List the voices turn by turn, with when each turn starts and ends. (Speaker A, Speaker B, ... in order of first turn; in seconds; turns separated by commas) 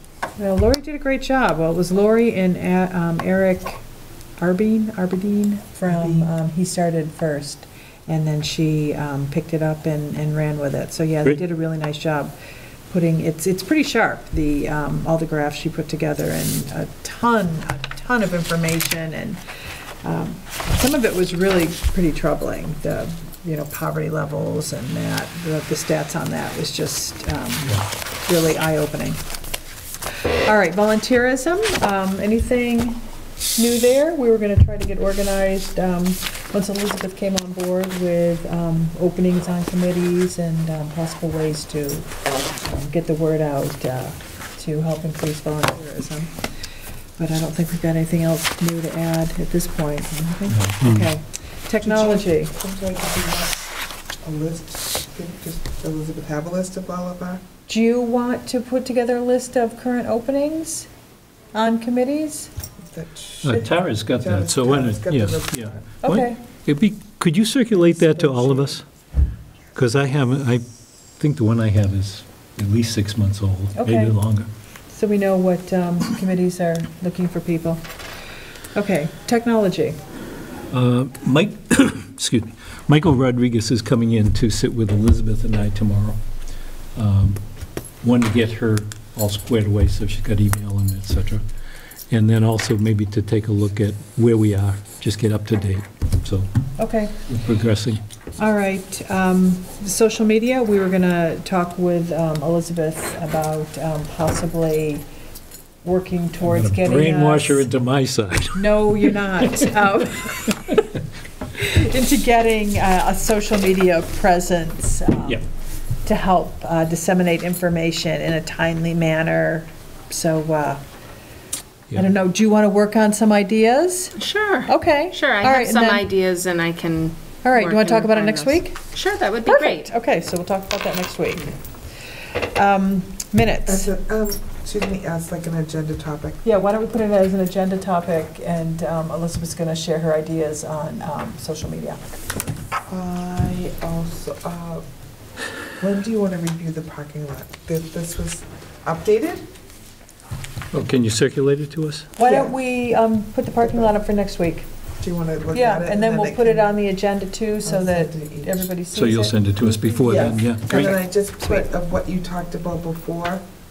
Speaker A: 0.4-3.8, Speaker A: 4.4-12.3, Speaker B: 5.9-6.3, Speaker A: 12.9-19.4, Speaker A: 20.0-29.2, Speaker A: 30.2-33.0, Speaker A: 33.5-46.3, Speaker A: 47.2-52.5, Speaker C: 50.5-51.0, Speaker B: 51.8-53.6, Speaker B: 54.2-57.4, Speaker A: 57.7-60.9, Speaker A: 61.5-62.5, Speaker B: 62.8-65.9, Speaker C: 63.4-68.8, Speaker A: 66.0-66.4, Speaker B: 68.2-68.8, Speaker C: 69.7-70.6, Speaker C: 71.2-74.5, Speaker A: 73.7-74.1, Speaker A: 74.9-77.8, Speaker A: 78.7-80.0, Speaker C: 80.7-86.2, Speaker C: 87.0-87.4, Speaker C: 88.0-91.4, Speaker C: 92.1-96.5, Speaker A: 96.8-97.2, Speaker C: 97.3-98.0, Speaker A: 98.4-105.0, Speaker A: 105.8-107.7, Speaker C: 106.4-109.9, Speaker A: 108.5-110.8, Speaker A: 111.5-115.4, Speaker A: 116.0-120.8, Speaker A: 121.9-126.1, Speaker D: 124.2-129.9, Speaker A: 127.4-128.8, Speaker A: 129.4-131.6, Speaker A: 132.3-133.9, Speaker B: 133.7-136.4, Speaker A: 136.4-142.2, Speaker B: 142.9-144.8, Speaker B: 145.8-149.4, Speaker C: 150.7-152.1, Speaker A: 152.2-154.7, Speaker B: 152.2-152.5, Speaker B: 153.6-153.9, Speaker B: 155.0-156.7, Speaker A: 155.5-159.4, Speaker B: 157.6-158.7, Speaker C: 158.9-161.0, Speaker B: 159.8-163.4, Speaker A: 159.9-161.7